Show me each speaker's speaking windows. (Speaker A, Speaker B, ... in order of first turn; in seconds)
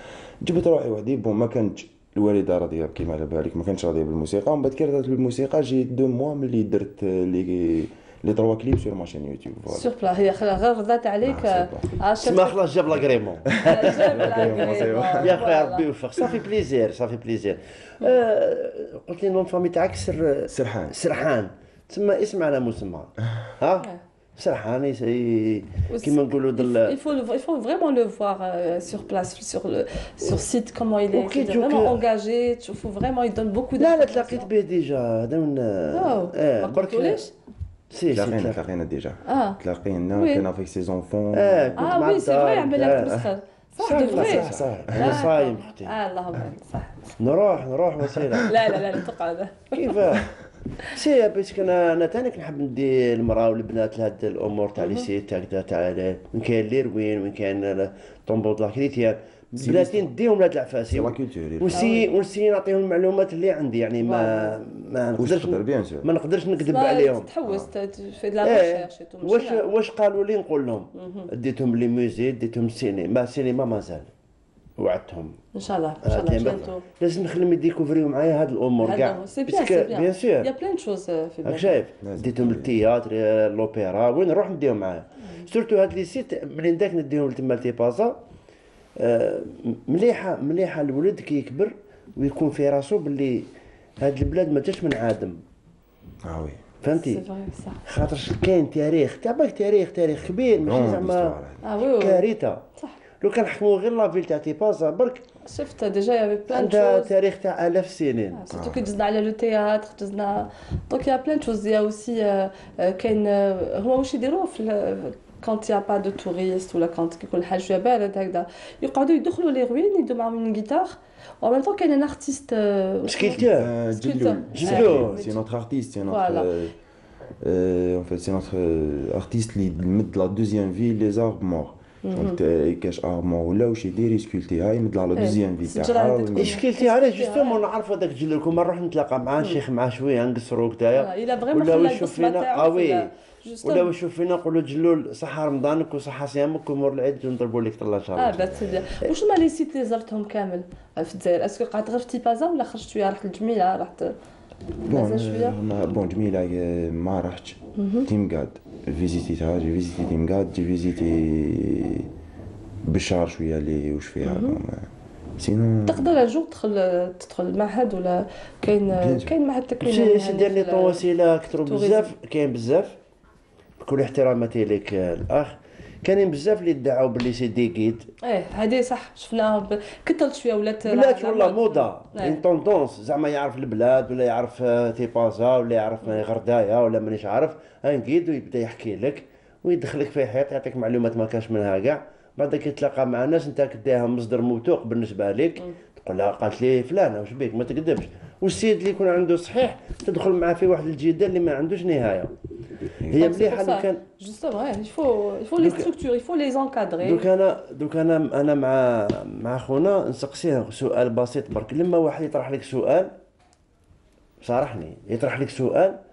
Speaker A: 0.4-9.9, 11.2-11.9, 13.5-15.4, 20.5-20.9, 38.1-41.8, 43.9-45.2, 59.6-60.1, 60.9-61.9, 65.2-66.1, 67.4-67.7, 82.0-82.7, 96.2-96.6, 100.6-101.6, 108.5-108.8, 123.4-126.7, 127.4-136.6, 154.9-162.1, 162.8-166.2, 169.0-169.3
Speaker B: 9.7-12.6, 13.6-15.9, 25.9-34.5, 35.9-37.3, 39.3-39.6, 40.1-40.5, 41.8-47.1, 48.5-49.9, 61.7-62.1, 64.0-64.6, 66.6-69.7, 71.0-71.3, 75.5-76.8, 78.8-81.8, 96.9-97.8, 101.6-102.2, 105.5-107.1, 108.3-125.4, 126.1-126.5, 132.0-132.4, 135.2-137.6, 141.0-143.9, 148.2-154.1, 154.9-155.6, 157.8-158.1, 164.2-164.6, 165.9-171.0, 171.6-172.1, 178.2-182.4, 203.1-207.3
Speaker C: 12.2-27.0, 31.1-32.0, 33.8-37.2, 37.9-38.6, 41.3-46.0, 47.2-48.9, 49.7-50.3, 50.9-67.3, 68.4-74.1, 74.8-75.4, 76.0-80.5, 81.4-88.2, 89.0-95.4, 96.8-97.2, 97.9-102.6, 103.2-105.2, 106.5-108.5, 123.0-123.7, 124.5-125.2, 136.4-143.1, 143.6-149.1, 169.8-173.0, 173.8-178.1, 180.8-202.3, 203.1-204.0, 205.6-205.9, 207.0-213.1, 214.4-216.0